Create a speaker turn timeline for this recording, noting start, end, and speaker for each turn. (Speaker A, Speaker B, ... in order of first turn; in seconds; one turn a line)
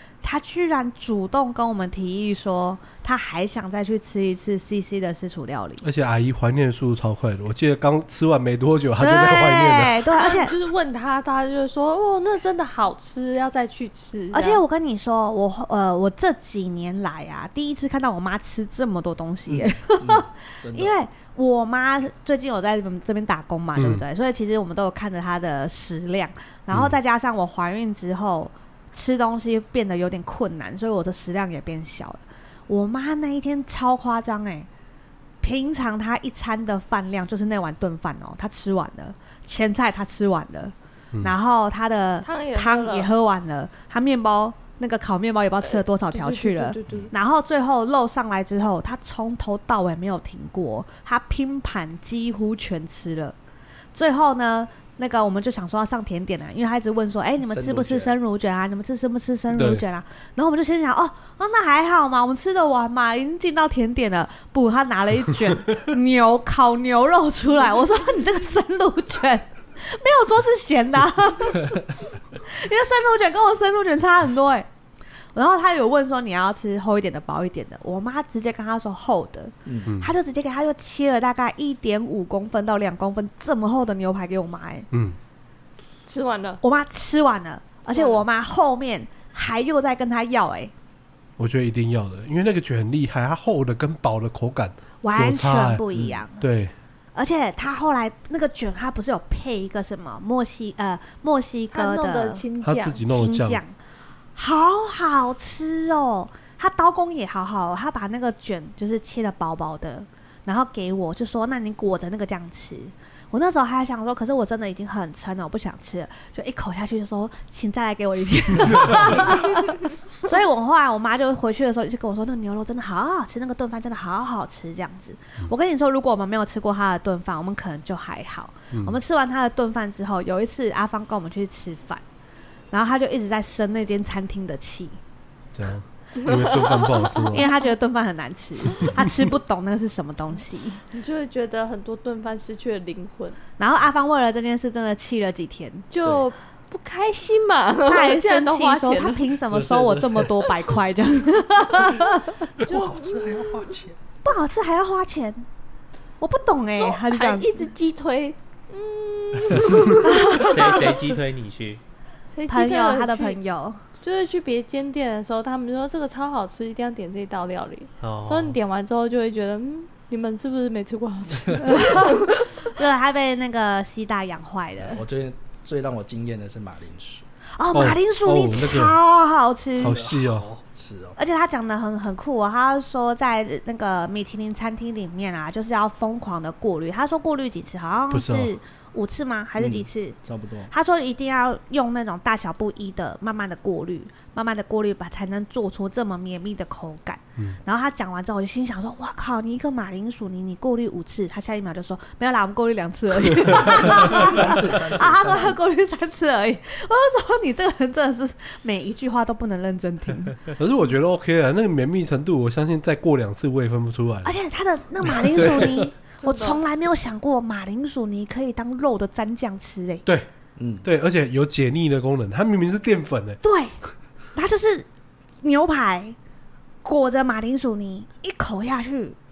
Speaker A: 0.2-5.8
Speaker B: 5.8-10.0
Speaker A: 9.0-10.5
Speaker C: 10.1-14.6
Speaker A: 14.3-34.7
Speaker D: 19.5-20.9
Speaker B: 23.8-24.0
Speaker A: 35.4-53.4
Speaker C: 42.2-43.1
Speaker C: 45.6-47.1
Speaker A: 53.9-71.9
Speaker D: 57.4-58.1
Speaker B: 59.5-59.8
Speaker A: 72.4-74.7
Speaker A: 75.3-84.9
Speaker D: 79.7-79.9
Speaker B: 79.9-80.1
Speaker B: 84.9-85.2
Speaker C: 86.1-86.6
Speaker A: 86.6-90.7
Speaker C: 87.9-88.2
Speaker B: 91.4-95.8
Speaker A: 95.0-96.4
Speaker B: 96.4-96.7
Speaker A: 97.2-102.5
Speaker C: 101.7-103.0
Speaker B: 102.6-103.6
Speaker A: 103.1-103.7
Speaker A: 104.4-132.0
Speaker B: 128.7-129.0
Speaker A: 132.7-135.0
Speaker B: 135.5-137.5
Speaker C: 136.2-137.5
Speaker A: 137.3-140.8
Speaker C: 140.9-143.4
Speaker A: 143.6-145.9
Speaker C: 145.9-149.3
Speaker A: 147.9-152.4
Speaker C: 152.1-153.7
Speaker D: 152.6-154.0
Speaker A: 154.2-155.5
Speaker A: 156.2-157.7
Speaker C: 156.8-161.0
Speaker A: 160.0-160.6
Speaker E: 160.4-161.8
Speaker C: 162.3-163.4
Speaker A: 162.5-163.8
Speaker C: 164.0-172.5
Speaker E: 168.0-168.6
Speaker A: 171.6-175.0
Speaker D: 174.8-177.3
Speaker A: 177.6-180.0
Speaker B: 177.7-179.0
Speaker D: 179.8-181.2
Speaker B: 179.8-180.5
Speaker A: 181.2-190.2
Speaker B: 188.1-188.5
Speaker D: 189.6-190.7
Speaker A: 190.7-210.4
Speaker D: 203.6-205.6
Speaker B: 210.6-214.4
Speaker A: 214.2-220.1
Speaker B: 215.1-215.9
Speaker C: 216.2-216.6
Speaker D: 220.6-220.9
Speaker B: 220.8-223.4
Speaker A: 223.4-223.8
Speaker A: 224.3-224.9
Speaker A: 225.4-226.2
Speaker A: 226.8-229.2